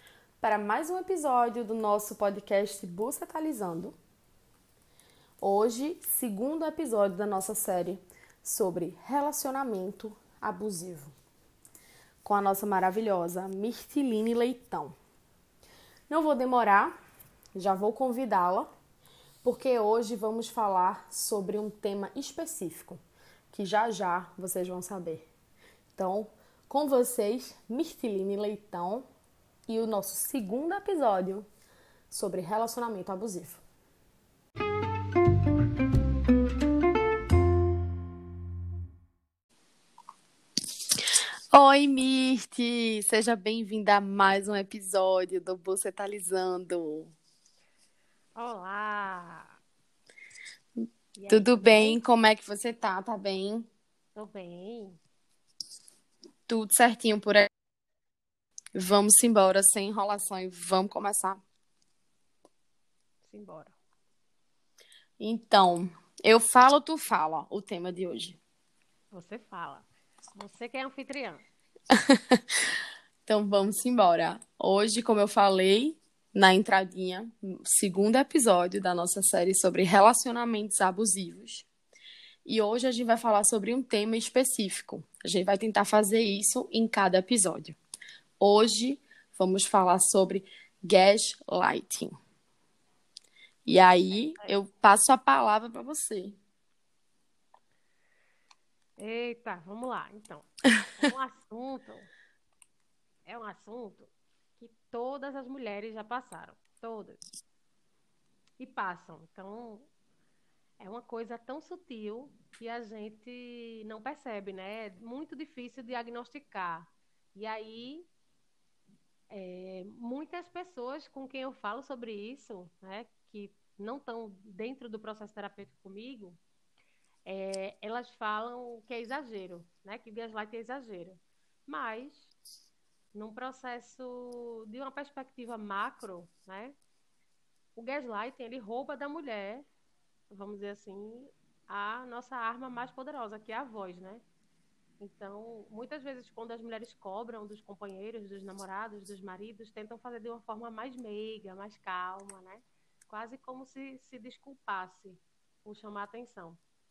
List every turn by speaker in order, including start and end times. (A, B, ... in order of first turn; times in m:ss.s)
0:00.4-0:04.0 A
0:05.4-0:11.1 A
0:12.2-0:15.0 A
0:16.1-0:16.9 A
0:17.6-0:18.7 A
0:19.4-0:23.0 A
0:23.5-0:25.3 A
0:26.0-0:29.0 A
0:29.7-0:31.5 A
0:32.1-0:33.6 A
0:41.5-0:47.1 A
0:48.4-0:49.6 B
0:50.8-0:53.7 A
0:51.2-0:52.0 B
0:54.2-0:55.0 B
0:56.5-0:57.5 A
0:58.7-1:01.4 A
1:03.2-1:03.8 B
1:05.2-1:08.4 A
1:09.1-1:11.5 B
1:12.1-1:12.4 A
1:13.3-1:21.7 A
1:22.4-1:27.8 A
1:28.4-1:32.1 A
1:33.7-1:36.4 A
1:34.2-1:34.5 B
1:39.0-1:42.1 B
1:43.2-1:47.2 B
1:48.6-1:49.9 B
1:50.8-1:58.1 B
1:59.3-2:06.4 B
2:07.2-2:12.3 B
2:13.1-2:16.8 B
2:17.8-2:19.7 B
2:20.3-2:24.2 B
2:25.0-2:36.6 B